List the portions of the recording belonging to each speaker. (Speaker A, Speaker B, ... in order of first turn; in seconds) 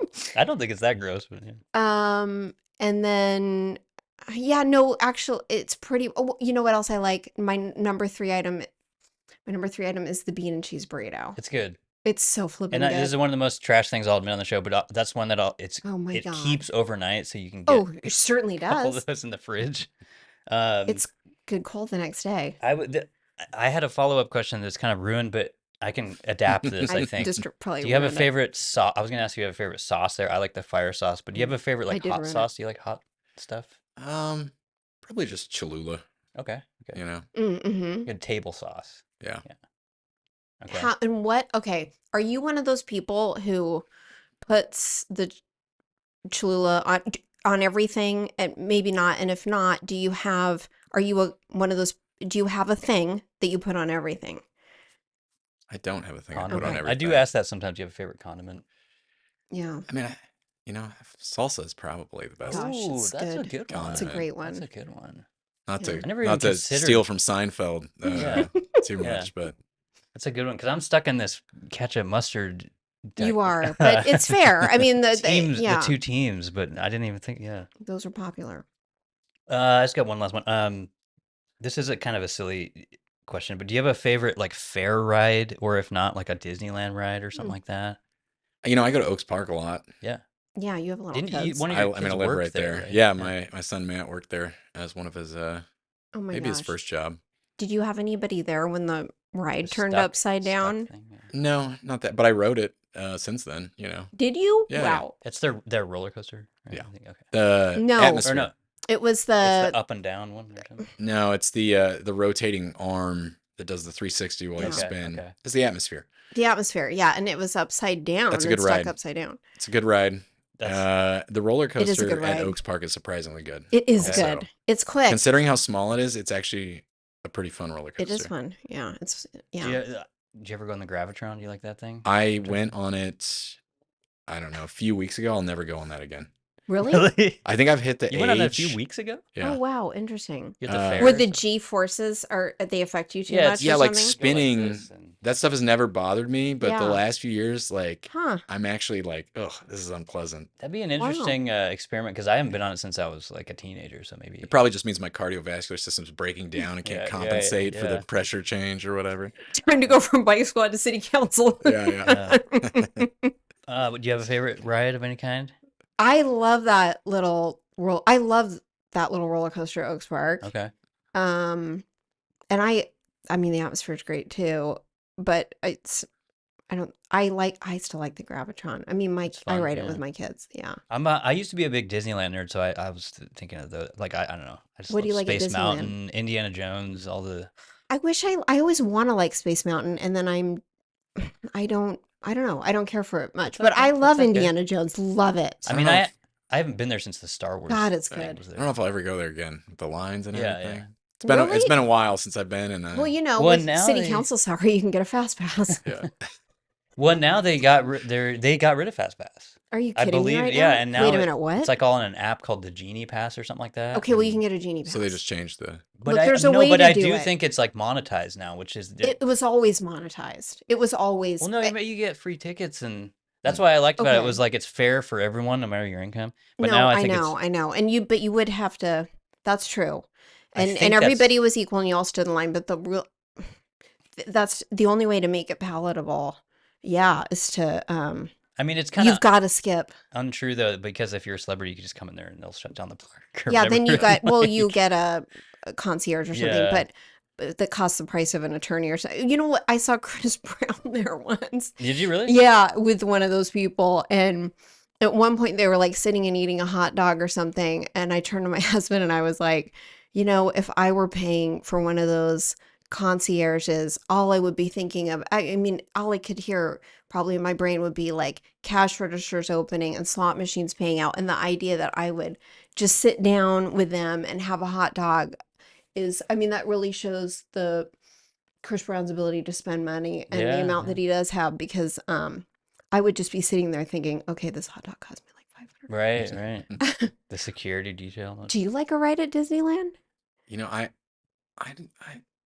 Speaker A: 0.3-1.6, 11.4-11.8, 12.7-18.1, 18.7-19.9, 20.5-21.0, 22.6-33.8, 36.4-37.0, 38.1-39.5, 40.6-40.9, 56.3-58.6, 62.5-65.2, 66.0-67.0, 68.1-69.3, 70.2-77.7, 79.5-80.9, 81.6-88.0, 91.1-93.3, 99.6-101.3, 105.2-107.3, 108.0-108.5, 109.4-110.9, 114.6-115.3, 120.6-120.9, 124.0-124.3, 129.6-132.7, 136.8-137.4, 138.1-139.2, 140.6-141.4, 143.3-145.2, 150.6-154.5, 156.8-158.1, 162.1-162.4, 163.7-165.5, 170.4-170.7, 179.3-180.0, 180.9-187.5, 193.5-194.5, 195.7-198.7, 200.3-200.9, 203.4-204.3, 207.0-214.1, 216.0-219.2, 221.4-227.4, 230.6-231.3, 238.6-239.2, 240.1-244.8, 246.3-246.9, 251.8-252.4, 280.3-281.0, 285.9-286.7, 287.3-288.5
Speaker B: 1.7-8.7, 9.5-11.4, 12.0-13.1, 15.8-16.6, 17.7-19.0, 20.9-22.6, 26.9-28.3, 31.4-32.5, 37.4-38.1, 40.7-43.9, 44.4-45.4, 46.3-54.4, 56.5-56.8, 59.5-59.9, 62.5-64.7, 65.8-66.0, 68.0-68.8, 73.2-76.0, 77.8-78.7, 90.6-91.7, 96.1-96.8, 97.6-100.9, 104.2-105.2, 107.8-108.3, 108.9-109.8, 114.6-114.9, 116.3-119.4, 121.8-122.6, 123.7-125.2, 128.0-129.8, 136.7-137.1, 139.4-144.2, 146.6-147.0, 148.1-148.4, 151.0-151.4, 159.5-163.3, 166.0-170.5, 171.2-171.8, 172.5-176.1, 176.7-180.8, 184.9-185.9, 187.9-190.6, 191.2-195.8, 197.7-198.4, 201.2-201.8, 202.9-205.8, 209.7-211.7, 213.9-215.2, 216.1-217.3, 219.0-221.7, 224.0-224.4, 226.6-233.5, 234.2-238.3, 239.0-239.9, 243.5-275.4, 275.9-277.9, 278.6-285.9, 286.8-287.1, 288.5-289.9
Speaker C: 26.5-27.1, 34.0-34.5, 35.0-36.0, 36.9-37.3, 55.7-57.3, 59.9-62.6, 63.7-64.3, 65.7-69.6, 88.6-89.9, 91.7-95.7, 96.3-97.2, 101.3-104.1, 104.7-105.0, 106.7-108.5, 111.0-116.1, 118.3-119.0, 119.6-124.5, 125.1-128.3, 132.1-133.6, 134.3-136.3, 137.4-138.8, 139.3-139.6, 140.7-141.2, 143.6-150.5, 154.4-159.4, 161.6-163.1, 195.7-196.1, 198.1-203.1, 205.8-206.2, 214.1-215.9, 290.5-290.9, 291.6-292.2